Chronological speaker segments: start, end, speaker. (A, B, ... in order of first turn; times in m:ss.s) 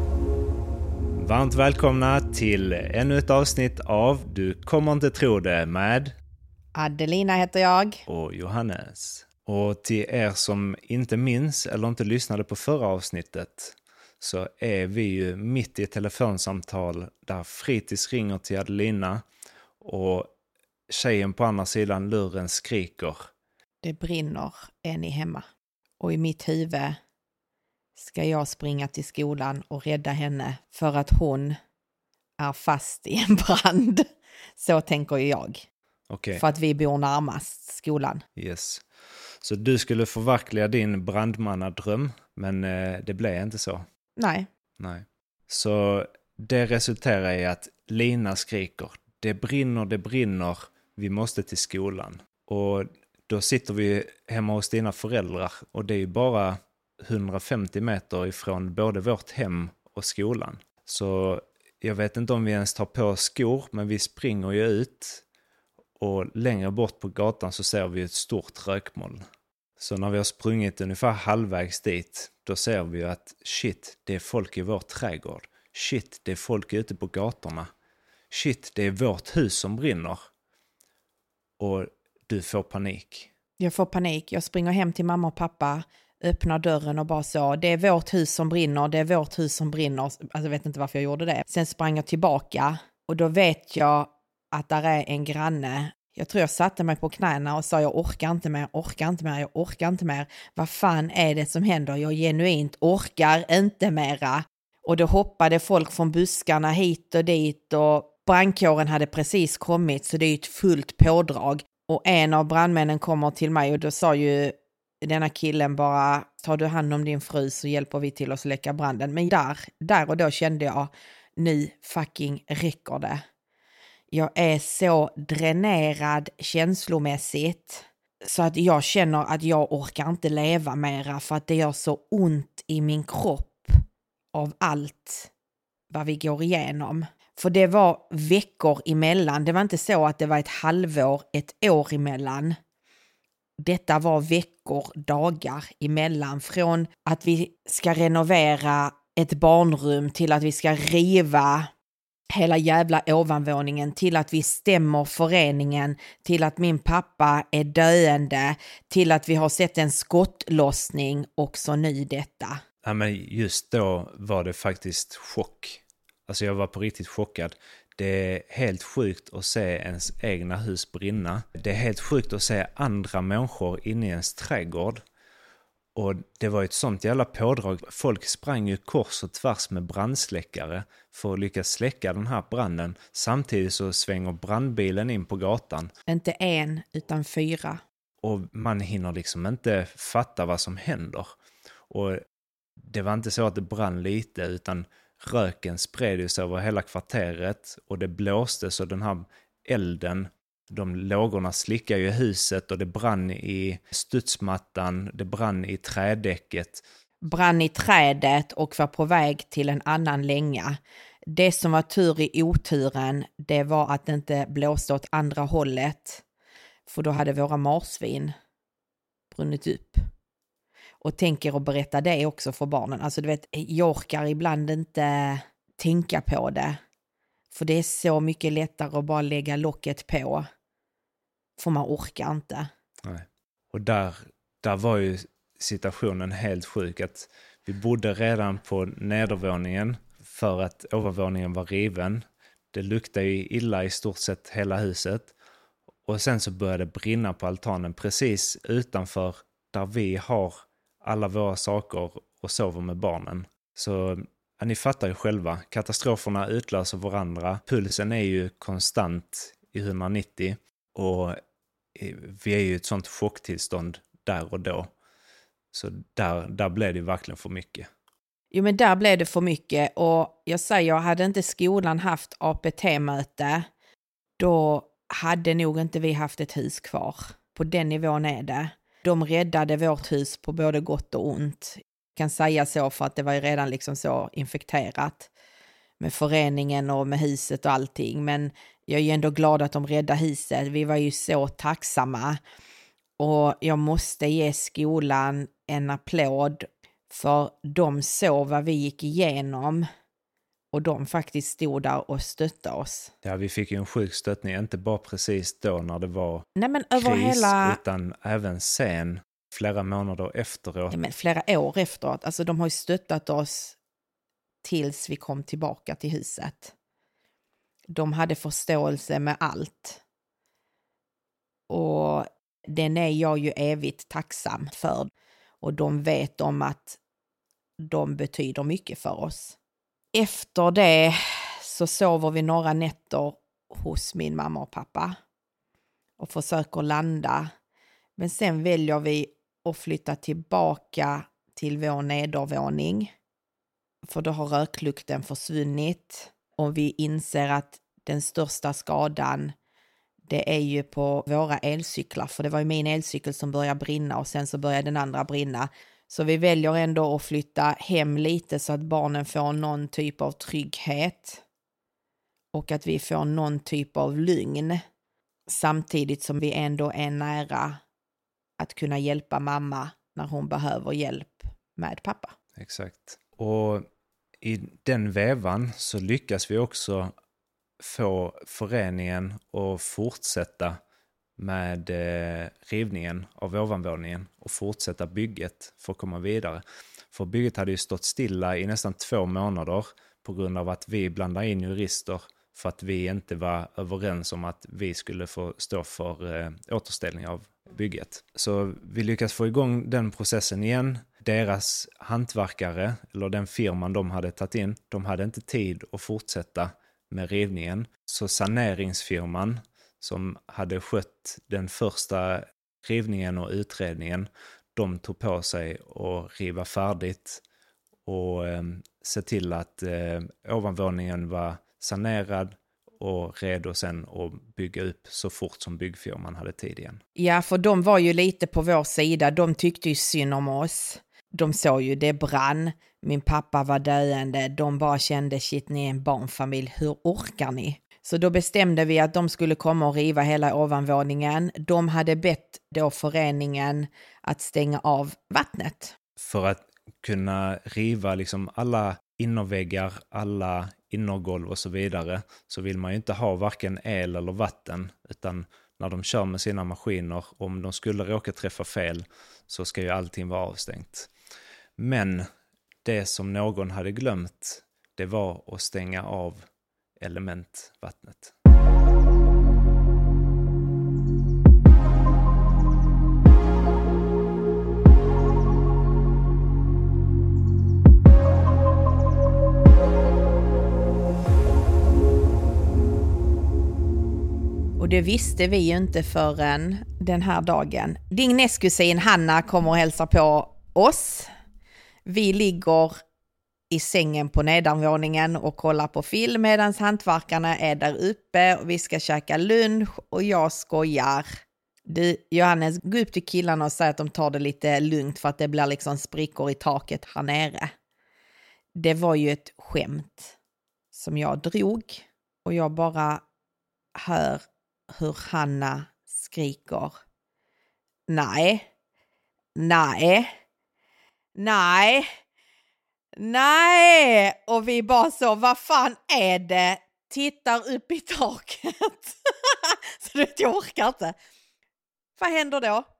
0:01.1-0:06.1 A
0:06.8-0:08.0 B
0:08.1-0:19.2 A
0:19.8-0:20.3 A
0:20.9-0:23.3 A
0:23.8-0:25.4 B
0:26.0-0:27.0 B
0:28.0-0:31.5 B
0:32.4-0:34.0 B
0:34.6-0:35.6 B
0:36.1-0:36.4 A
0:36.4-0:38.2 B
0:38.4-0:38.8 A
0:39.4-0:43.8 A
0:44.2-0:44.5 B
0:44.8-1:05.2 A
1:06.0-1:09.2 A
1:09.8-1:17.7 A
1:18.3-1:20.3 A
1:21.6-1:23.3 A
1:23.6-2:03.2 B
2:04.1-2:13.7 B
2:14.3-2:15.3 B
2:15.9-2:22.6 B
2:23.6-2:31.7 B
2:32.3-2:42.6 B
2:42.8-2:55.0 A
2:55.9-3:05.9 A
3:06.1-3:07.8 B
3:08.2-3:11.3 A
3:11.9-3:12.2 A
3:12.9-3:26.8 A
3:27.2-3:36.2 B
3:36.9-3:38.3 B
3:39.3-3:40.0 B
3:41.0-3:46.8 B
3:47.5-3:50.4 B
3:51.6-3:52.7 B
3:53.0-4:05.3 A
4:06.1-4:21.4 A
4:21.9-4:24.9 A
4:25.7-4:27.9 A
4:28.5-4:33.7 B
4:34.4-4:45.3 B
4:46.0-4:52.4 B
4:53.2-4:59.8 B
5:00.7-5:03.1 B
5:03.2-5:11.0 A
5:06.6-5:07.8 B
5:10.9-5:13.8 B
5:14.6-5:16.7 B
5:17.9-5:20.0 B
5:21.7-5:27.0 B
5:27.8-5:29.6 B
5:30.1-5:35.2 B
5:36.2-5:37.5 B
5:38.2-5:43.1 B
5:44.1-5:49.5 B
5:50.3-6:01.4 B
6:02.5-6:04.8 B
6:05.5-6:07.8 B
6:08.6-6:12.3 B
6:12.6-6:13.8 A
6:14.4-6:17.1 A
6:17.8-6:20.8 A
6:21.4-6:57.4 A
6:58.0-7:07.0 A
7:07.2-7:25.9 B
7:26.2-7:41.1 A
7:41.8-7:42.3 A
7:42.8-7:46.5 A
7:47.0-7:48.3 A
8:04.8-8:11.3 B
8:12.0-8:12.9 B
8:13.7-8:21.2 B
8:21.9-8:27.7 B
8:28.8-8:30.4 B
8:30.9-8:33.2 B
8:34.0-8:37.0 B
8:38.1-8:38.7 B
8:39.6-8:40.3 B
8:41.3-8:42.0 B
8:43.2-8:51.1 B
8:52.2-8:52.8 B